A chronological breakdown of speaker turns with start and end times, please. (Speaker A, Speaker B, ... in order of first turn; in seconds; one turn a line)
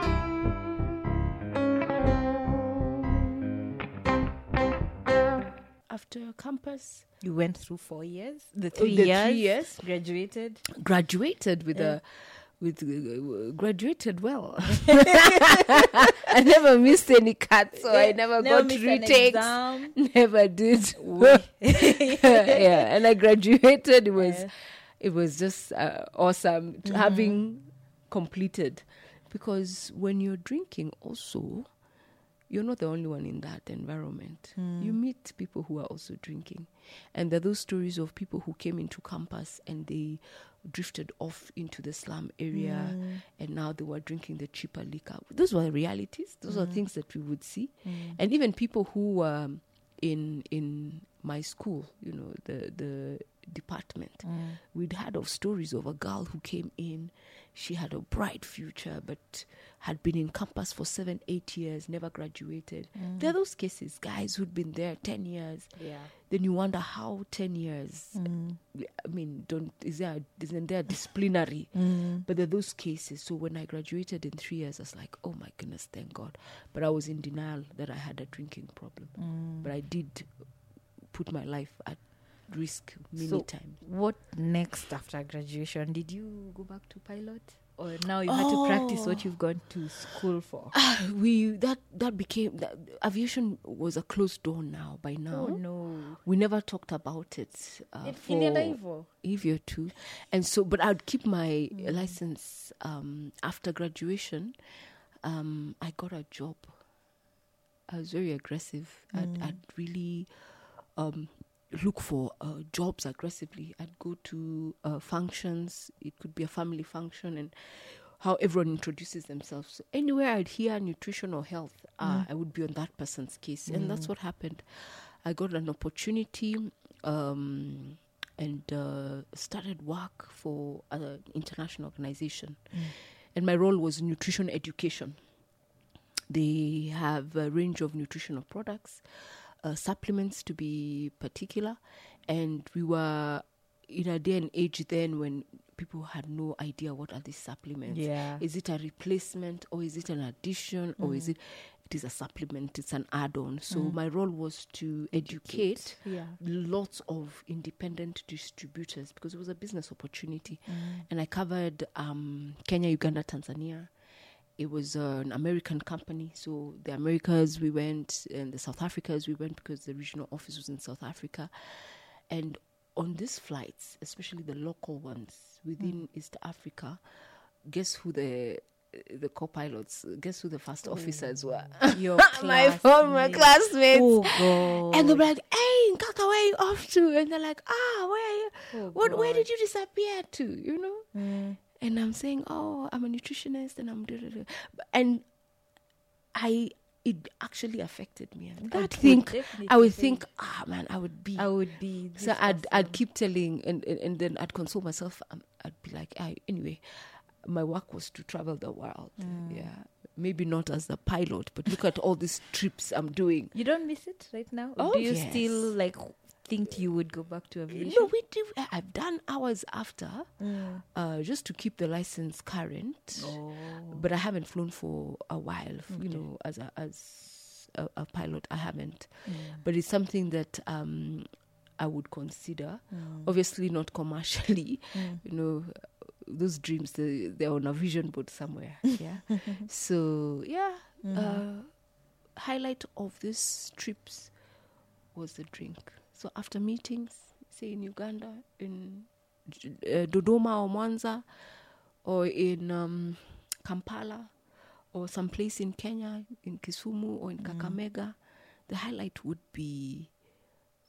Speaker A: 5.9-7.1
Speaker B: 7.2-10.7
Speaker A: 8.7-9.8
Speaker A: 10.8-12.0
Speaker A: 12.6-31.7
Speaker B: 14.9-16.1
Speaker B: 17.8-20.0
Speaker B: 21.1-22.9
Speaker B: 24.2-24.5
Speaker B: 26.9-27.4
Speaker A: 32.5-80.3
Speaker B: 34.6-35.0
Speaker B: 42.5-43.2
Speaker B: 46.5-46.8
Speaker B: 47.9-48.2
Speaker B: 54.2-54.6
Speaker B: 63.0-63.3
Speaker B: 65.8-66.1
Speaker B: 68.1-68.6
Speaker B: 71.7-72.3
Speaker B: 79.2-79.7
Speaker A: 81.1-83.8
Speaker B: 83.2-90.8
Speaker A: 88.2-89.4
Speaker A: 90.7-95.6
Speaker B: 95.3-96.2
Speaker A: 96.2-104.5
Speaker B: 98.0-99.1
Speaker B: 101.7-102.2
Speaker A: 105.2-106.8
Speaker A: 107.9-110.3
Speaker B: 109.1-109.6
Speaker A: 111.0-135.2
Speaker B: 123.7-124.1
Speaker A: 136.3-163.9
Speaker B: 147.9-148.4
Speaker B: 151.0-151.3
Speaker B: 153.7-154.0
Speaker B: 155.1-156.4
Speaker B: 160.7-161.1
Speaker A: 164.6-177.0
Speaker A: 177.7-191.1
Speaker B: 180.8-185.3
Speaker B: 188.7-189.5
Speaker B: 191.1-191.6
Speaker A: 191.8-195.2
Speaker A: 196.3-201.5
Speaker B: 198.6-200.3
Speaker B: 201.4-203.0
Speaker A: 202.2-213.5
Speaker B: 209.2-209.7
Speaker B: 213.5-218.1
Speaker A: 214.8-215.7
Speaker A: 217.7-220.3
Speaker B: 220.4-220.8
Speaker A: 220.9-231.3
Speaker B: 223.2-224.1
Speaker B: 225.9-226.2
Speaker B: 229.3-229.7
Speaker A: 231.8-241.7
Speaker B: 232.9-233.3
Speaker B: 234.9-235.2
Speaker B: 239.0-239.7
Speaker B: 241.0-241.4
Speaker A: 242.4-244.3
Speaker A: 245.1-251.2
Speaker A: 252.0-254.3
Speaker A: 254.9-258.2
Speaker B: 257.4-257.8
Speaker A: 258.7-260.1